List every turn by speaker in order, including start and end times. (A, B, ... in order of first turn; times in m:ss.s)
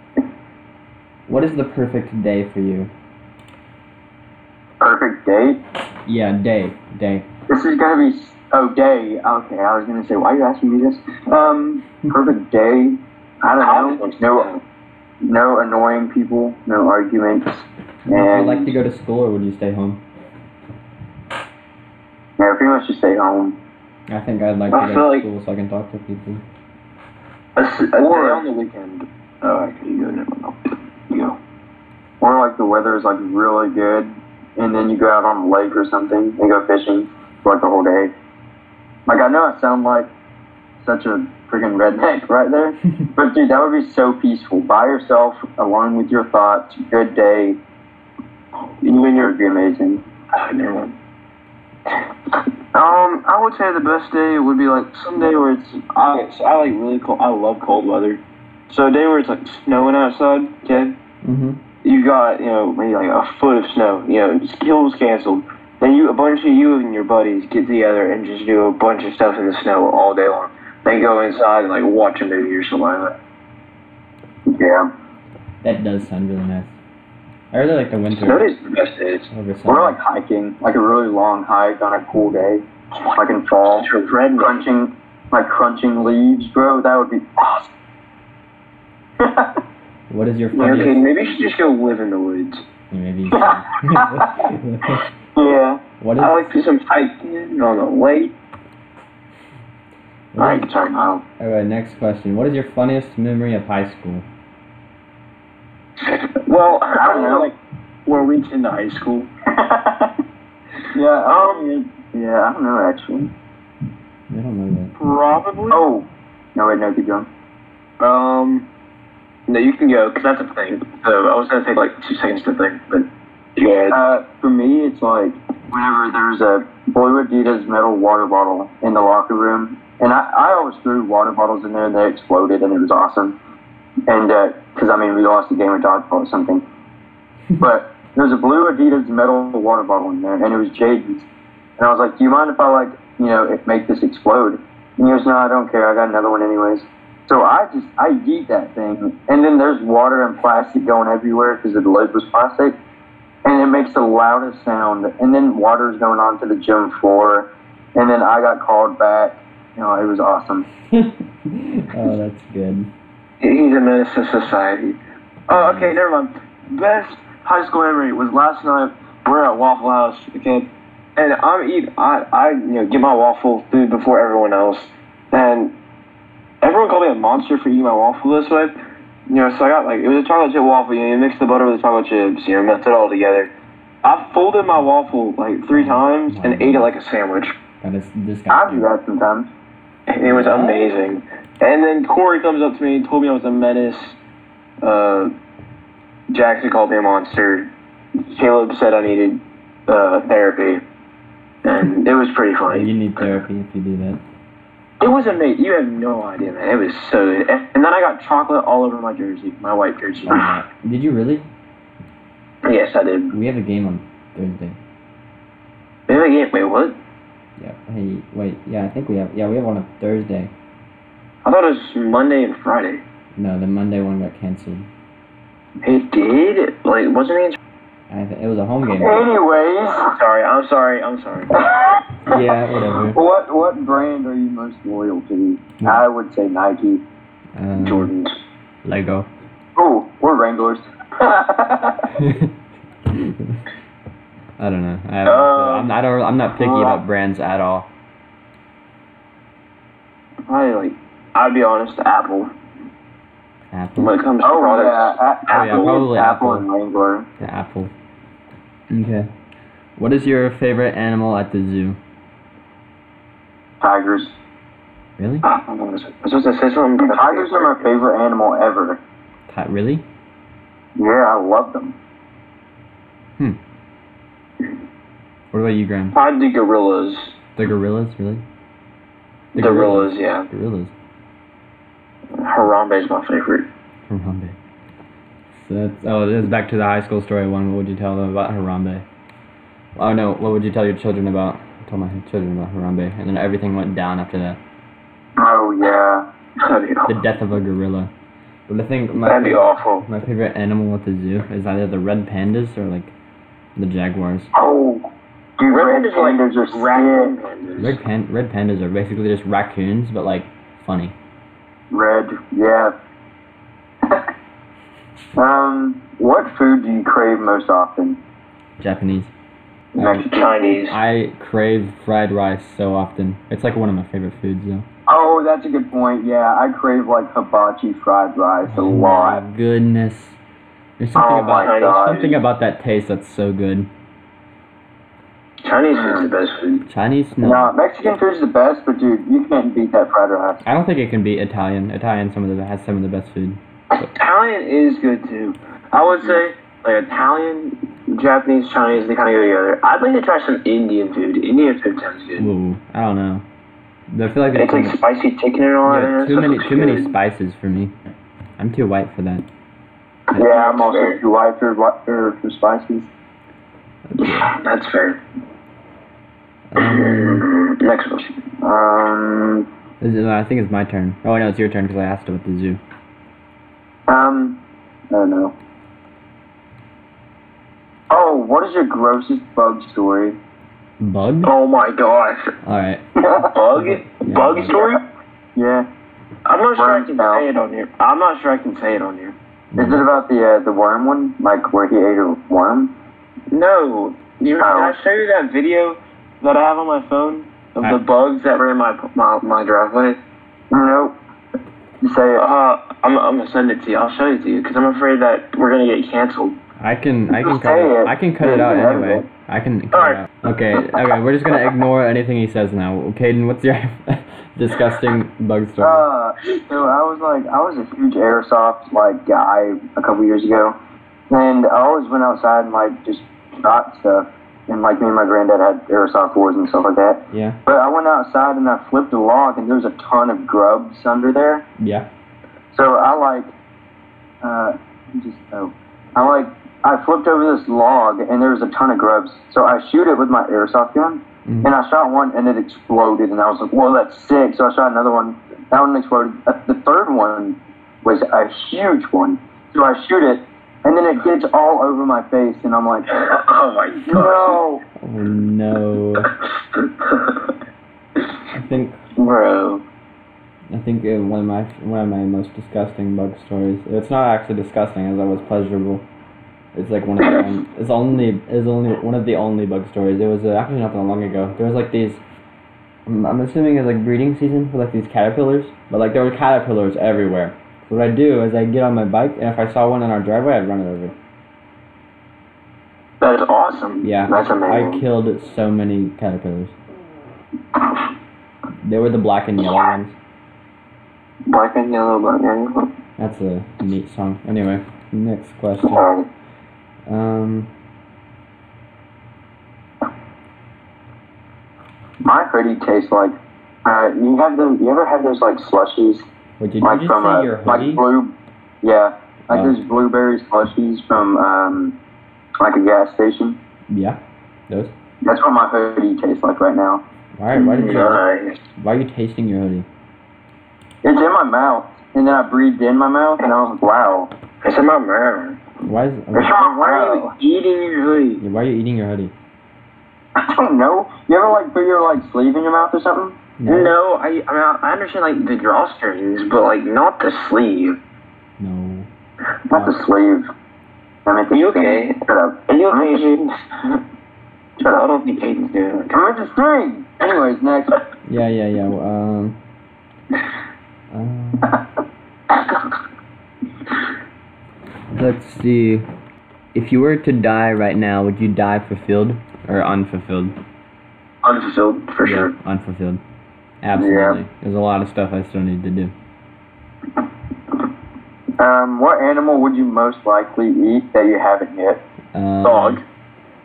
0:01.3-0:02.9 A
0:04.8-0:05.6 B
0:06.0-0:07.3 A
0:07.5-0:14.5 B
0:13.6-0:14.6 C
0:15.2-0:18.7 B
0:18.1-0:20.0 A
0:22.4-0:23.6 B
0:24.1-0:26.4 A
0:24.7-0:25.2 C
0:27.6-0:31.4 C
0:27.6-0:28.4 B
0:32.2-0:38.1 B
0:39.1-0:40.1 B
0:40.8-0:47.6 B
0:48.8-0:49.4 C
0:49.1-0:50.0 B
0:50.3-0:50.9 C
0:52.7-1:01.0 C
1:01.2-1:01.6 A
1:01.8-1:13.2 C
1:14.5-1:14.9 B
1:15.6-1:16.8 A
1:17.5-1:18.5 A
1:18.2-1:19.3 C
1:19.3-1:20.0 A
1:19.7-1:27.7 B
1:23.6-1:24.6 C
1:29.2-1:29.6 B
1:30.1-1:31.3 A
1:30.5-1:32.6 C
1:32.9-1:35.0 A
1:33.3-1:34.5 B
1:35.4-1:35.8 B
1:36.0-1:36.5 A
1:36.2-1:38.3 C
1:40.3-1:40.7 A
1:40.4-1:41.2 C
1:41.4-1:44.2 A
1:46.0-1:49.3 C
1:46.9-1:47.5 B
1:49.5-1:50.1 B
1:50.9-1:53.3 B
1:51.2-1:51.7 C
1:54.3-1:54.9 A
1:55.0-1:55.8 C
1:55.7-1:57.3 B
1:58.0-1:58.7 C
1:59.5-2:04.0 C
2:03.9-2:13.4 B
2:14.1-2:16.6 B
2:17.6-2:32.8 B
2:33.4-2:40.6 B
2:40.9-2:42.9 A
2:43.4-2:45.0 C
2:45.5-2:55.7 C
2:45.5-2:46.0 A
2:56.6-2:58.7 C
2:59.3-3:03.5 C
3:04.0-3:07.6 C
3:05.7-3:06.9 A
3:07.8-3:08.9 A
3:08.5-3:09.5 B
3:10.1-3:14.2 C
3:10.2-3:10.9 A
3:14.8-3:15.3 C
3:16.3-3:17.7 C
3:18.3-3:20.8 C
3:21.6-3:23.3 C
3:22.7-3:24.2 A
3:25.0-3:30.5 C
3:30.3-3:31.4 A
3:32.6-3:33.3 C
3:33.3-3:34.8 A
3:36.1-3:37.0 C
3:37.6-3:40.5 A
3:41.4-3:43.0 C
3:43.4-3:44.9 A
3:45.8-3:47.6 C
3:48.1-3:49.3 A
3:49.0-3:50.1 B
3:50.1-3:51.6 C
3:51.6-3:52.4 B
3:52.2-3:53.2 A
3:53.1-3:57.0 B
3:57.6-3:58.1 A
3:57.8-3:58.3 C
3:58.8-3:59.3 A
3:59.8-4:02.2 B
4:02.2-4:02.5 A
4:03.1-4:03.6 A
4:04.6-4:07.9 A
4:05.2-4:05.9 C
4:06.6-4:07.0 C
4:10.5-4:12.5 C
4:13.7-4:14.1 A
4:14.0-4:16.0 C
4:14.4-4:17.3 B
4:15.5-4:16.6 A
4:17.4-4:17.9 A
4:18.9-4:19.3 A
4:20.0-4:22.0 A
4:23.8-4:24.4 B
4:25.2-4:25.5 A
4:25.4-4:27.9 C
4:27.0-4:29.0 B
4:29.5-4:30.0 A
4:31.0-4:32.0 B
4:35.5-4:36.2 A
4:36.1-4:37.4 C
4:37.6-4:38.4 A
4:39.5-4:40.9 A
4:39.6-4:40.5 C
4:42.4-4:43.7 C
4:44.1-4:44.6 A
4:45.5-4:49.0 A
4:50.0-4:54.6 A
4:55.4-4:56.2 B
4:56.6-4:57.1 C
4:57.1-4:58.1 A
4:58.7-5:03.1 A
4:59.2-5:00.0 C
5:03.8-5:04.5 A
5:04.5-5:05.0 B
5:05.6-5:07.4 B
5:05.7-5:08.0 C
5:07.8-5:11.1 A
5:11.9-5:12.9 B
5:15.4-5:18.2 B
5:18.8-5:19.3 A
5:20.0-5:20.3 A
5:20.0-5:21.0 C
5:20.0-5:20.6 B
5:20.8-5:24.8 A
5:25.1-5:29.4 B
5:28.7-5:30.4 A
5:31.0-5:33.9 A
5:31.2-5:32.4 B
5:31.2-5:32.4 C
5:35.6-5:36.8 C
5:35.9-5:36.3 B
5:36.8-5:37.7 A
5:37.4-5:40.6 B
5:40.6-5:44.1 A
5:44.0-5:52.5 C
5:46.2-5:46.4 B
5:52.4-5:53.4 A
5:54.1-5:55.0 A
5:54.5-5:57.1 C
5:55.8-5:57.9 A
5:58.6-5:59.4 A
6:00.3-6:01.2 C
6:00.3-6:03.1 B
6:04.1-6:04.6 A
6:04.2-6:05.2 C
6:06.7-6:07.5 A
6:06.8-6:08.4 C
6:08.6-6:09.6 B
6:10.0-6:12.8 A
6:14.1-6:15.5 B
6:18.1-6:20.4 B
6:21.0-6:21.5 A
6:21.4-6:22.5 C
6:22.6-6:23.0 A
6:23.2-6:23.5 B
6:23.5-6:25.0 C
6:23.7-6:24.8 A
6:24.7-6:25.0 B
6:25.6-6:25.9 B
6:26.4-6:29.4 C
6:26.8-6:27.4 B
6:29.7-6:30.0 A
6:29.8-6:32.9 B
6:33.5-6:40.2 C
6:34.6-6:35.0 B
6:40.7-6:41.2 B
6:42.0-6:42.4 B
6:42.4-6:46.6 C
6:46.8-6:56.0 A
6:47.4-6:49.3 B
6:49.9-6:50.2 C
6:55.8-7:00.8 B
7:01.3-7:11.6 B
7:07.3-7:07.6 A
7:11.8-7:12.1 A
7:12.7-7:13.5 B
7:14.4-7:33.4 B
7:21.4-7:21.7 A
7:33.1-7:34.6 C
7:34.1-7:34.8 B
7:35.0-7:36.3 A
7:36.7-7:37.5 C
7:38.5-7:39.0 A
7:39.2-7:39.8 C
7:40.7-7:46.0 A
7:46.7-7:52.2 A
7:53.0-8:01.1 A
8:03.2-8:05.0 C
8:04.0-8:06.7 A
8:08.8-8:10.2 A
8:11.5-8:12.9 C
8:13.2-8:16.1 A
8:15.8-8:16.2 C
8:17.1-8:17.7 A
8:22.2-8:26.3 B
8:26.6-8:28.0 A
8:26.8-8:32.0 B
8:29.5-8:29.8 A
8:32.6-8:33.6 B
8:33.9-8:34.9 A
8:35.2-8:37.0 B
8:37.4-8:38.2 A
8:37.5-8:38.6 C
8:38.8-8:39.8 A
8:41.0-8:44.3 B
8:44.6-8:45.6 C
8:45.8-8:46.6 A
8:46.3-8:48.4 C
8:46.4-8:47.3 B
8:48.4-8:49.3 A
8:50.4-8:53.4 B
8:53.6-8:54.0 A
8:53.7-8:58.0 C
8:58.6-8:59.1 A
8:59.7-9:00.5 B
8:59.7-9:00.0 A
9:01.2-9:03.3 B
9:01.5-9:04.0 C
9:04.8-9:06.2 C
9:06.1-9:08.0 B
9:08.2-9:09.6 A
9:11.1-9:11.8 A
9:15.1-9:16.0 A
9:16.7-9:20.6 A
9:21.4-9:22.5 C
9:22.2-9:23.2 A
9:23.8-9:26.1 A
9:24.0-9:24.4 B
9:28.6-9:32.0 B
9:32.3-9:33.0 A
9:32.6-9:33.0 C